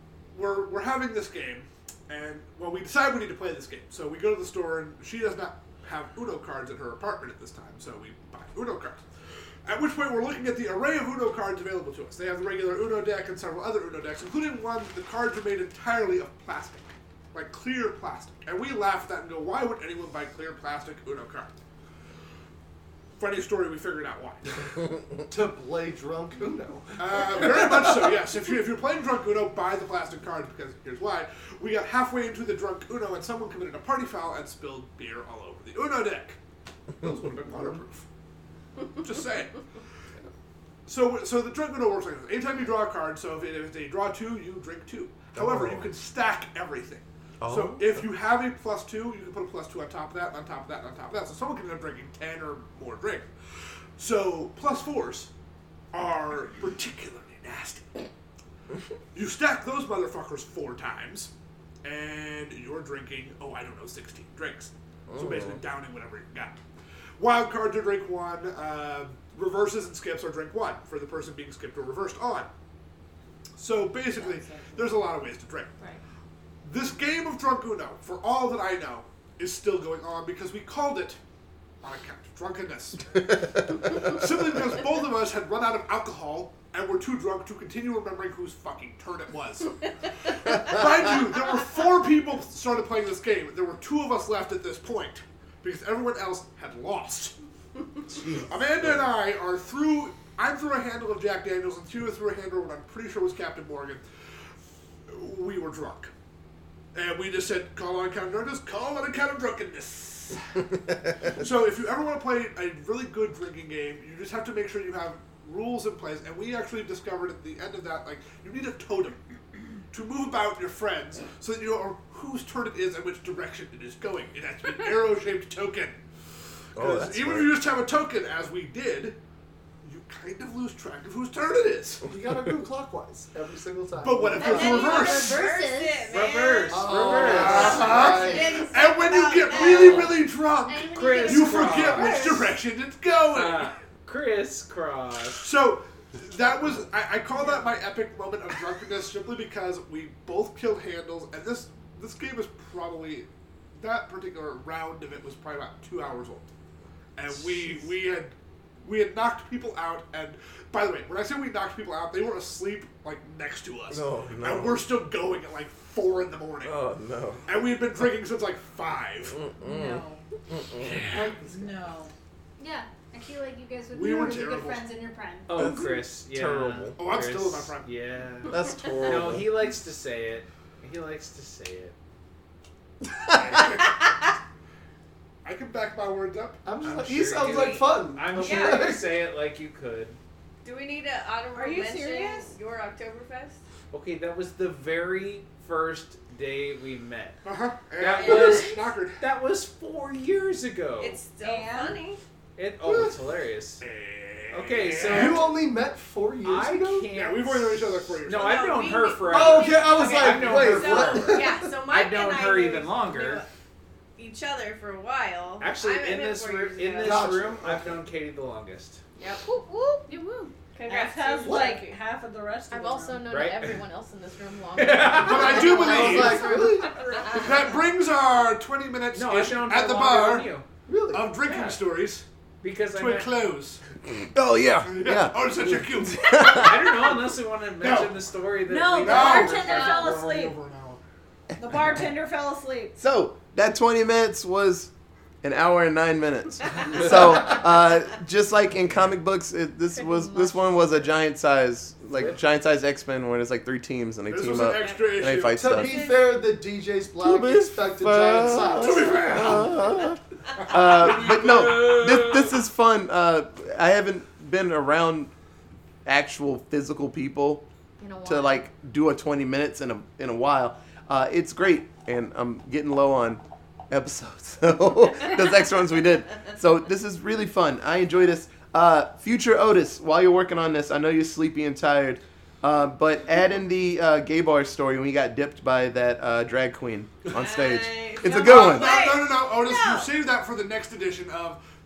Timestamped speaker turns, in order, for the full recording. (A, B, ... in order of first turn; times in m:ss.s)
0:00.3-0:09.0 A
0:09.7-0:21.5 A
0:23.2-0:24.6 A
0:25.3-0:28.2 B
0:27.0-0:36.4 A
0:37.0-0:38.0 A
0:39.0-0:39.6 A
0:40.9-0:55.3 A
0:45.4-0:45.9 C
0:47.4-0:47.8 C
0:55.9-0:58.0 A
0:59.1-1:01.3 A
1:01.8-1:06.6 A
1:05.1-1:05.4 C
1:07.2-1:12.5 A
1:13.6-1:15.7 A
1:14.2-1:14.8 D
1:16.6-1:21.2 A
1:21.8-1:23.2 A
1:23.8-1:37.4 A
1:31.3-1:31.6 E
1:38.1-1:39.0 C
1:38.5-1:44.0 A
1:45.1-1:46.1 A
1:46.9-1:50.6 A
1:51.2-1:59.2 A
1:59.9-2:06.0 A
2:06.7-2:09.2 A
2:06.8-2:07.5 C
2:09.8-2:12.1 A
2:12.0-2:14.4 B
2:14.0-2:15.4 A
2:14.3-2:20.2 E
2:14.4-2:16.1 F
2:16.1-2:17.9 G
2:16.7-2:18.5 B
2:17.1-2:23.8 A
2:17.7-2:18.6 F
2:19.6-2:20.2 G
2:20.7-2:22.3 F
2:20.9-2:22.5 G
2:23.3-2:25.4 G
2:25.4-2:33.3 A
2:33.8-2:36.5 A
2:37.2-2:38.3 A
2:38.8-2:46.9 A
2:43.9-2:44.8 C
2:46.6-2:47.4 C
2:47.5-2:49.4 A
2:49.4-2:51.0 C
2:49.6-2:50.2 D
2:50.8-2:51.4 A
2:51.2-2:52.1 D
2:52.6-2:55.7 F
2:53.9-2:54.8 A
2:55.5-3:02.0 G
2:55.5-2:57.0 C
2:57.0-2:57.9 A
2:58.5-2:59.6 C
3:03.3-3:04.0 A
3:05.4-3:06.6 A
3:06.6-3:09.2 B
3:06.8-3:10.2 G
3:08.4-3:08.9 E
3:10.6-3:13.6 E
3:11.5-3:12.5 D
3:13.9-3:17.4 G
3:17.4-3:19.2 A
3:18.0-3:21.2 G
3:21.0-3:22.2 E
3:21.4-3:22.0 D
3:22.6-3:23.8 G
3:22.8-3:23.2 A
3:23.8-3:25.5 A
3:24.5-3:25.5 G
3:25.1-3:27.1 B
3:26.4-3:33.4 G
3:27.1-3:28.5 A
3:28.3-3:33.5 E
3:29.3-3:31.6 B
3:34.2-3:37.3 E
3:35.6-3:39.0 G
3:37.0-3:38.0 B
3:40.1-3:43.2 D
3:40.7-3:41.8 E
3:42.7-3:47.5 H
3:43.3-3:43.9 G
3:44.8-3:46.1 G
3:45.1-3:46.6 A
3:45.6-3:47.1 B
3:47.3-3:50.6 A
3:49.1-3:50.7 G
3:50.9-3:51.3 B
3:51.1-3:52.2 A
3:51.5-3:51.8 G
3:52.6-3:53.4 G
3:52.9-3:53.8 A
3:54.3-3:56.8 C
3:54.8-3:56.9 A
3:56.4-3:59.9 G
3:57.8-3:58.2 A
3:58.7-4:00.6 D
3:58.9-4:01.0 A
4:01.6-4:03.0 D
4:03.0-4:04.9 C
4:05.4-4:16.0 C
4:09.9-4:10.8 H
4:12.2-4:12.4 G
4:14.3-4:15.9 A
4:14.8-4:15.1 E
4:15.6-4:19.6 B
4:17.2-4:25.3 C
4:18.5-4:19.9 A
4:20.6-4:22.5 A
4:26.0-4:27.6 C
4:28.0-4:28.6 H
4:28.2-4:49.0 C
4:47.3-4:50.1 E
4:48.4-4:51.6 A